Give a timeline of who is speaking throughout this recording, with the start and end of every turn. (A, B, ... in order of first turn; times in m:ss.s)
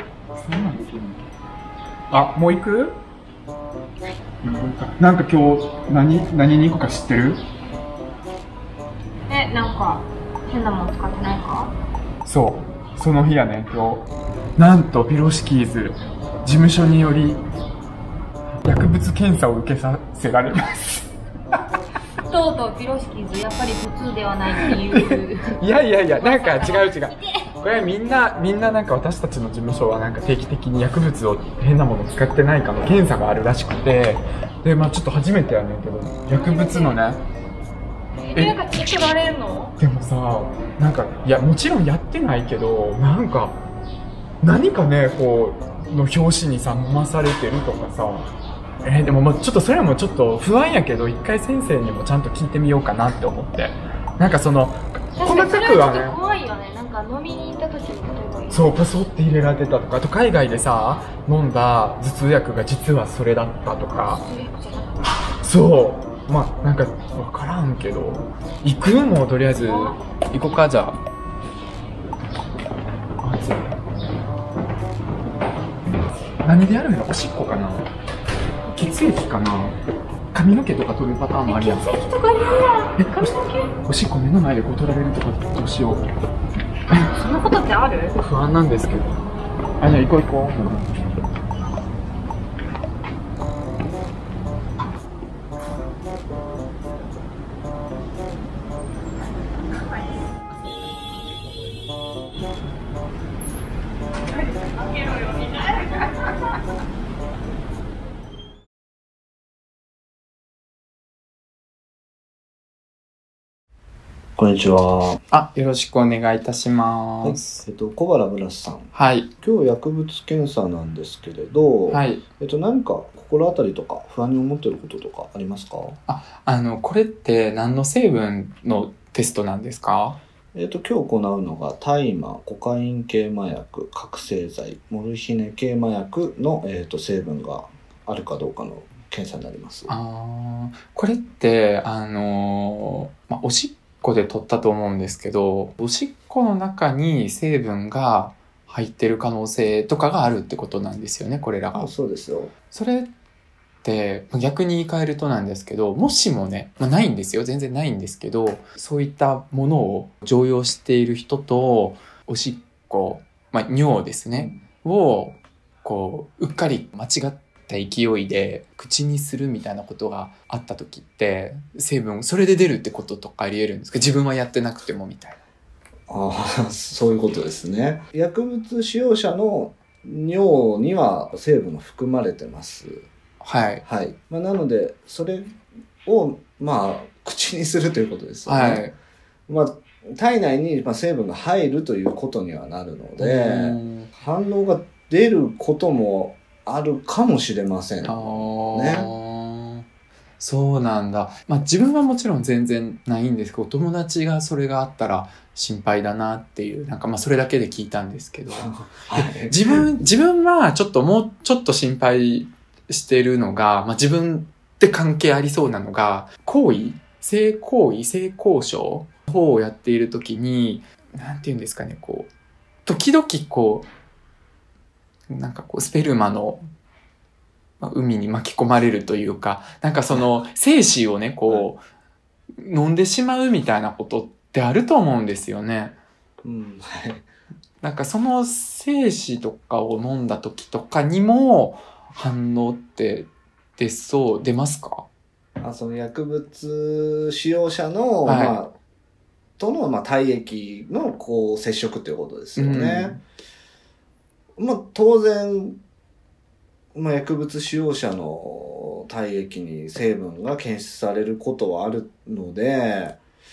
0:00.4-0:01.2 A
0:02.1-0:03.0 A
0:04.4-0:07.4 A
0:09.3-0:11.7 B
0:12.2-0:17.4 A
0:18.6-0:21.1 A
0:22.3-0:25.6 B
0:24.5-0:37.2 A
0:26.1-0:27.4 B
0:36.3-0:37.0 B
0:38.2-0:39.8 B
0:39.8-0:43.6 A
0:44.4-0:48.3 A
0:48.8-0:56.2 A
0:55.2-0:58.8 B
0:58.5-1:04.2 A
1:04.0-1:05.2 B
1:05.4-1:11.0 A
1:09.5-1:10.0 B
1:13.2-1:13.8 A
1:16.4-1:17.9 A
1:18.7-1:19.8 A
1:20.3-1:21.9 A
1:21.4-1:23.8 B
1:23.0-1:26.0 A
1:27.1-1:28.2 B
1:28.2-1:29.2 A
1:29.8-1:30.8 A
1:44.9-1:45.8 B
1:54.4-1:55.2 C
1:55.3-1:57.6 A
1:57.2-2:06.0 C
1:58.9-1:59.3 A
2:01.9-2:02.2 A
2:06.1-2:10.2 A
2:10.5-2:19.9 C
2:19.9-2:31.9 A
2:31.7-2:32.5 C
2:32.7-2:33.1 A
2:33.8-2:55.4 A
2:44.3-2:44.6 C
2:56.1-3:03.0 C
3:03.4-3:03.8 A
3:03.8-3:05.5 C
3:06.0-3:08.9 C
3:08.4-3:08.9 A
3:09.5-3:19.1 C
3:13.2-3:14.1 A
3:18.0-3:19.8 A
3:20.4-3:42.3 A
3:28.5-3:29.9 C
3:42.8-3:43.9 A
3:45.3-3:46.6 A
3:47.8-3:51.8 A
3:52.6-3:56.0 A
3:56.4-3:57.2 C
3:57.8-4:05.1 A
4:05.6-4:08.7 C
4:08.2-4:08.6 A
4:09.6-4:13.2 C
4:12.6-4:13.2 A
4:14.6-4:15.8 C
4:16.9-4:23.2 C